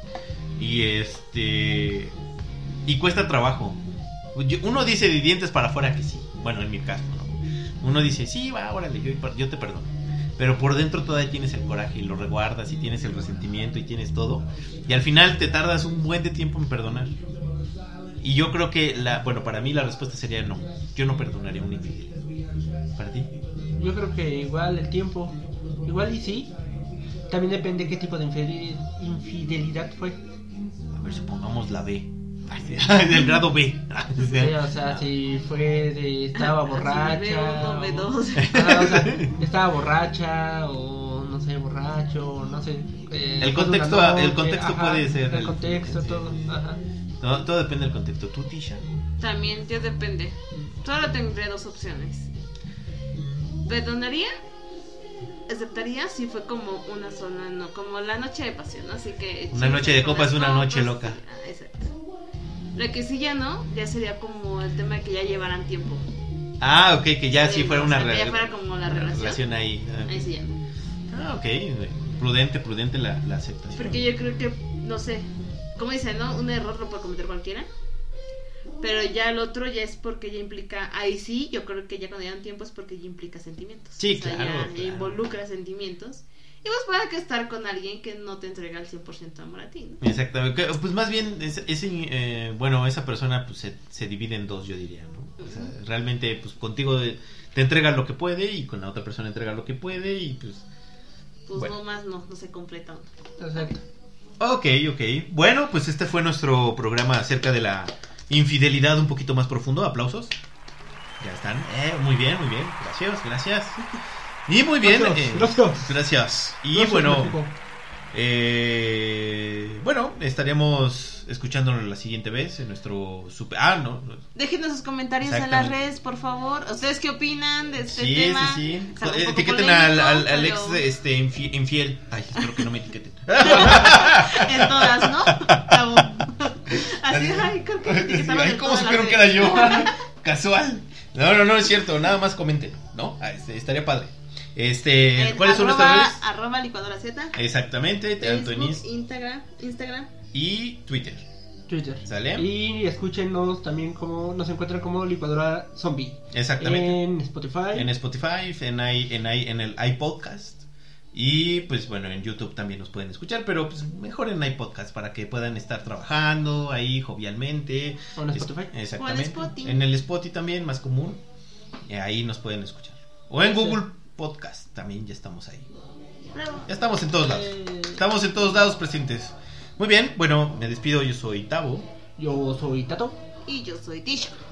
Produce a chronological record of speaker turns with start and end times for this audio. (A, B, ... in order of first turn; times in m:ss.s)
0:00.6-0:02.1 A
0:02.8-0:03.8 A
0:04.3-0:17.2 A
0:18.2-0:22.2 A
0:23.0-0:23.3 A
0:23.8-0:25.3 B
0:25.8-0:26.5 B
0:27.3-0:30.2 B
0:30.9-0:35.1 A
0:34.3-0:46.8 B
0:36.3-0:38.6 C
0:38.4-0:39.3 A
0:43.4-0:46.5 A
0:47.2-0:48.8 A
0:49.2-0:52.3 C
0:53.6-0:54.3 C
0:55.5-1:01.9 C
0:59.5-1:01.2 A
1:02.8-1:06.0 C
1:06.6-1:10.3 A
1:07.3-1:09.4 C
1:10.0-1:10.6 C
1:11.1-1:14.0 A
1:13.8-1:15.2 C
1:15.8-1:17.7 C
1:18.8-1:30.0 C
1:24.0-1:25.2 A
1:30.0-1:40.6 A
1:35.4-1:35.7 C
1:41.5-1:43.0 C
1:43.4-1:43.8 B
1:44.4-1:50.3 A
1:51.2-1:53.8 A
1:54.5-1:57.4 A
1:54.8-1:55.9 B
1:56.7-1:57.5 B
1:58.1-2:04.2 A
2:04.4-2:10.8 C
2:05.2-2:05.8 A
2:07.9-2:16.0 A
2:13.4-2:19.9 C
2:16.7-2:26.2 A
2:25.2-2:27.4 C
2:27.3-2:28.8 A
2:28.2-2:30.1 C
2:30.3-2:31.2 A
2:31.7-2:37.9 B
2:32.0-2:32.5 A
2:36.3-2:37.0 A
2:37.7-2:51.2 A
2:48.2-2:48.7 B
2:49.0-2:49.8 C
2:51.9-2:55.7 A
2:53.4-2:53.8 B
2:56.3-2:56.7 C
2:56.6-3:01.9 A
2:57.2-2:58.0 B
3:02.2-3:03.2 B
3:03.4-3:04.4 C